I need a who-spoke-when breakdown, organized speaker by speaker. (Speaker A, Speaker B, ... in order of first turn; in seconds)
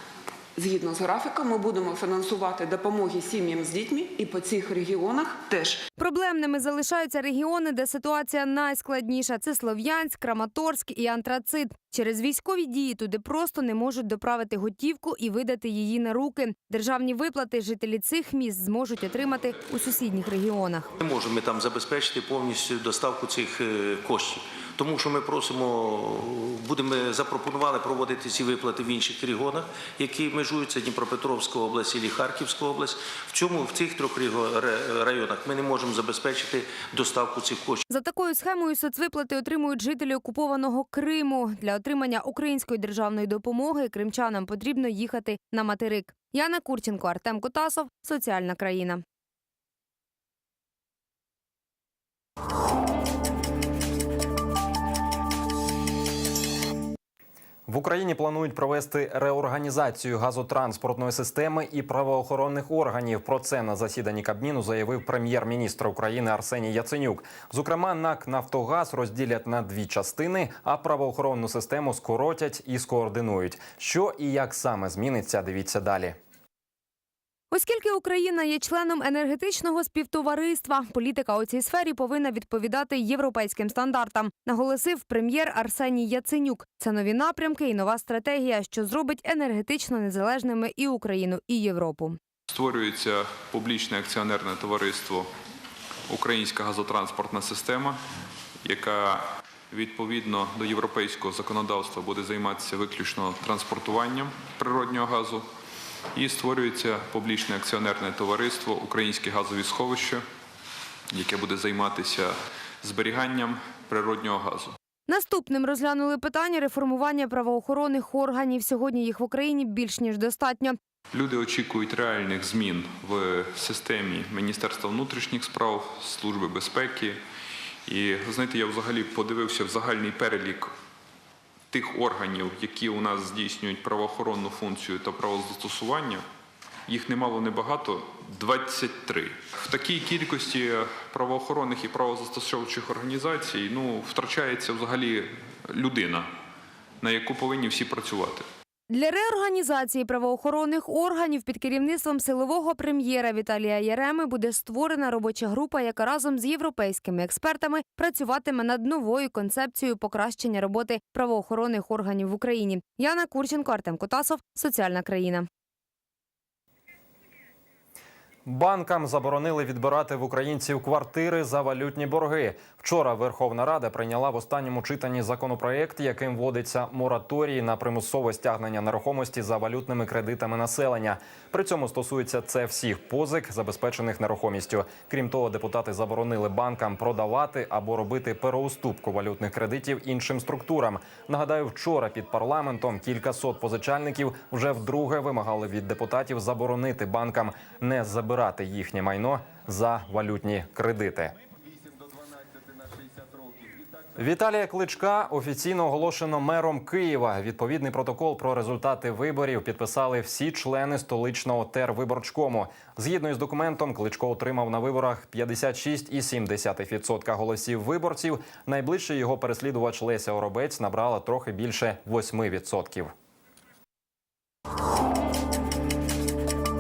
Speaker A: 0.6-5.8
Speaker B: 6.0-20.9, 37.9-49.0, 77.5-92.2, 115.1-120.8, 148.9-165.5
Speaker C: 21.0-37.8
Speaker D: 57.7-76.2, 168.5-201.4, 204.2-223.1
Speaker E: 92.5-95.3, 96.1-98.0, 98.6-105.5, 106.2-110.2, 111.1-114.8, 121.1-127.2, 127.9-130.7, 131.7-136.2, 136.9-146.3, 147.0-148.5